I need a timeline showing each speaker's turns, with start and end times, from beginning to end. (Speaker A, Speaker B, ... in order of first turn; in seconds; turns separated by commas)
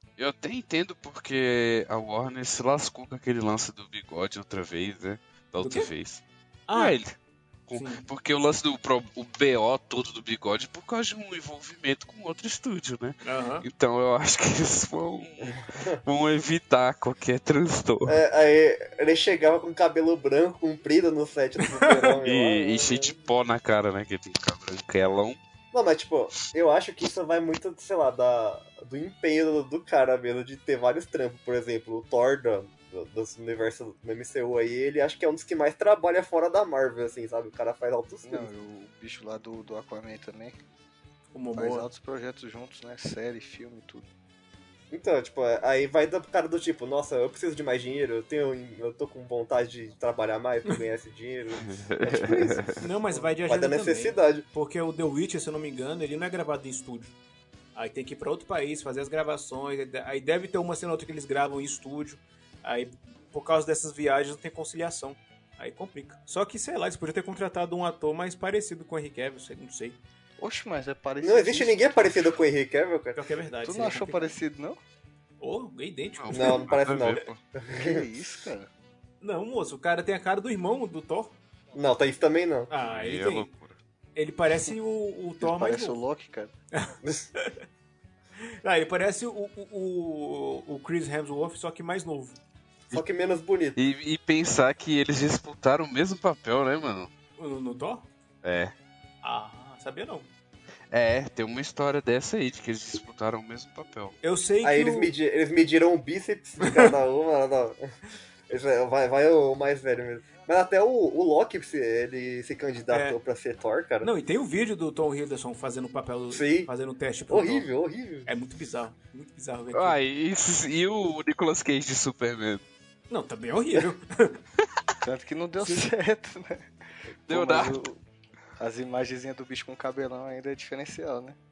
Speaker A: 0.2-6.2, Speaker B: 5.6-5.9, Speaker B: 6.7-7.0, Speaker A: 6.7-7.1, Speaker A: 7.7-18.2, Speaker B: 7.7-8.0, Speaker B: 13.2-13.6, Speaker C: 15.5-16.0, Speaker C: 18.1-23.1, Speaker B: 21.8-22.1, Speaker A: 22.2-25.4, Speaker C: 25.7-38.5, Speaker D: 38.2-40.6, Speaker B: 41.3-41.9, Speaker D: 41.5-44.1, Speaker C: 44.9-54.4, Speaker A: 51.6-52.8, Speaker B: 52.8-57.1, Speaker B: 57.7-70.0, Speaker D: 70.4-72.1, Speaker C: 71.2-73.2, Speaker B: 73.1-74.3, Speaker D: 73.6-74.8, Speaker B: 75.4-76.7, Speaker A: 76.2-77.4, Speaker C: 76.3-78.0, Speaker D: 77.7-78.7, Speaker B: 79.2-81.3, Speaker C: 81.7-82.7, Speaker B: 82.7-83.5, Speaker A: 82.8-83.8, Speaker B: 84.2-86.0, Speaker D: 85.4-86.5, Speaker B: 86.7-87.5, Speaker C: 87.0-87.3, Speaker B: 88.6-92.4, Speaker C: 92.9-93.8, Speaker A: 93.8-97.1, Speaker B: 97.4-98.0, Speaker A: 98.4-98.7, Speaker B: 99.2-100.3, Speaker A: 100.9-104.2, Speaker B: 104.2-105.1, Speaker C: 104.6-107.8, Speaker B: 106.6-106.9, Speaker C: 108.5-114.1, Speaker B: 112.9-113.2, Speaker B: 114.0-117.7, Speaker C: 116.3-116.7, Speaker C: 117.3-118.3, Speaker B: 118.2-120.0, Speaker A: 119.7-122.6, Speaker B: 123.1-124.4, Speaker D: 125.0-126.7, Speaker B: 125.6-125.9, Speaker A: 127.3-127.8, Speaker D: 127.3-127.8, Speaker C: 127.5-128.0, Speaker D: 128.6-131.4